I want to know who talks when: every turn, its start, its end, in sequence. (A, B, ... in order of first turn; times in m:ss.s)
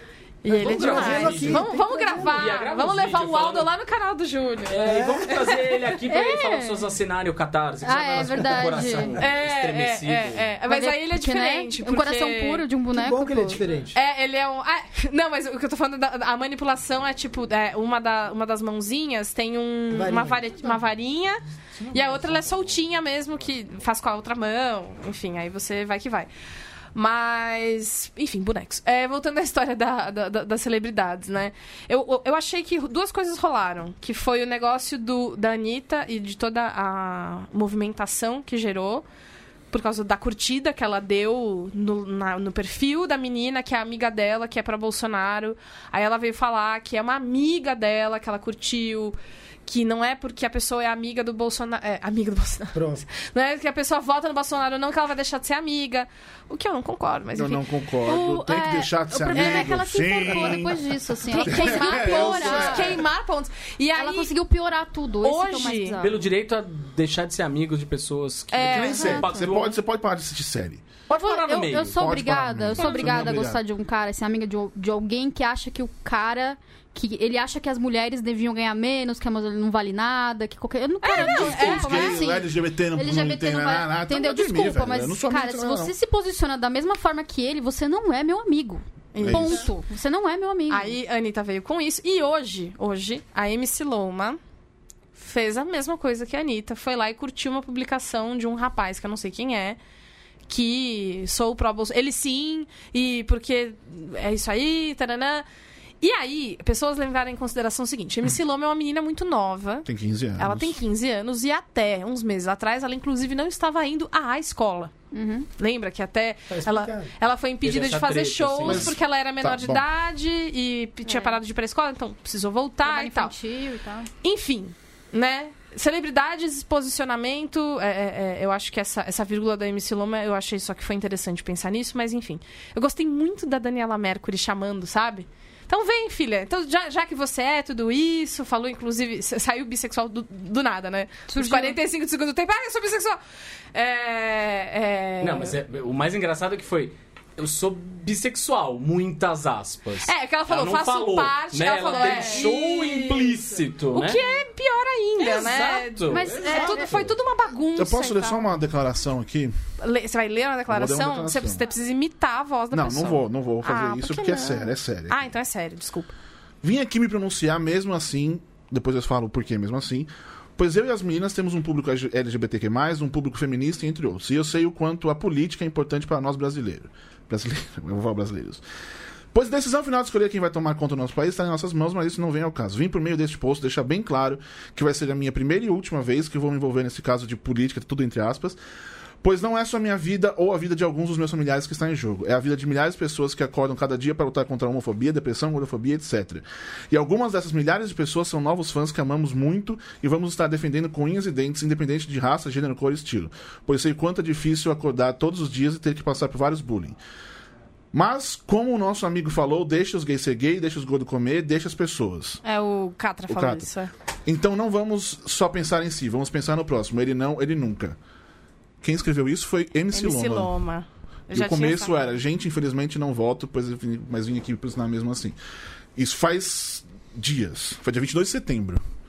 0:00.4-0:05.8 A
0:00.5-0:02.5 B
0:00.5-0:03.7 C
0:04.6-0:10.5 C
0:04.8-0:05.4 B
0:06.1-0:06.8 D
0:07.8-0:09.2 D
0:08.4-0:09.0 B
0:09.1-0:12.6 A
0:10.7-0:13.6 D
0:12.9-0:14.0 B
0:13.9-0:26.3 A
0:19.9-0:20.5 B
0:21.9-0:22.4 C
0:26.9-0:39.0 A
0:39.7-1:00.6 A
0:52.7-0:53.1 B
0:57.3-1:00.8 E
0:58.1-1:03.0 D
1:01.3-1:04.3 A
1:01.3-1:03.0 E
1:03.9-1:06.1 D
1:05.2-1:06.0 A
1:06.0-1:09.8 C
1:08.5-1:09.3 A
1:08.7-1:10.9 E
1:08.8-1:09.4 D
1:11.1-1:12.0 C
1:11.2-1:30.9 D
1:11.9-1:13.6 E
1:12.8-1:13.3 A
1:21.0-1:22.3 A
1:21.1-1:25.9 E
1:29.1-1:29.7 A
1:29.2-1:29.6 E
1:30.7-1:34.4 A
1:35.1-1:39.8 A
1:40.5-1:45.4 A
1:46.0-1:54.9 A
1:49.8-1:50.7 E
1:55.1-1:55.5 D
1:55.6-2:03.3 A
1:56.5-1:57.1 B
1:57.6-1:59.0 C
1:58.6-1:59.8 E
2:01.0-2:01.4 D
2:02.8-2:04.1 D
2:04.2-2:23.2 A
2:21.3-2:21.8 D
2:23.7-2:25.6 A
2:25.2-2:34.2 C
2:30.0-2:38.5 A
2:31.9-2:32.5 D
2:35.2-2:37.1 C
2:36.1-2:37.0 D
2:37.8-2:39.5 E
2:39.8-2:46.1 A
2:40.7-2:41.6 E
2:42.7-2:45.3 E
2:46.6-2:58.6 E
2:59.3-3:08.6 E
3:09.2-3:27.0 E
3:27.9-3:32.4 E
3:32.4-3:33.9 A
3:33.3-3:33.7 E
3:34.2-3:38.0 E
3:38.8-3:40.5 E
3:39.9-3:42.0 A
3:41.3-3:45.4 E
3:46.0-3:48.8 E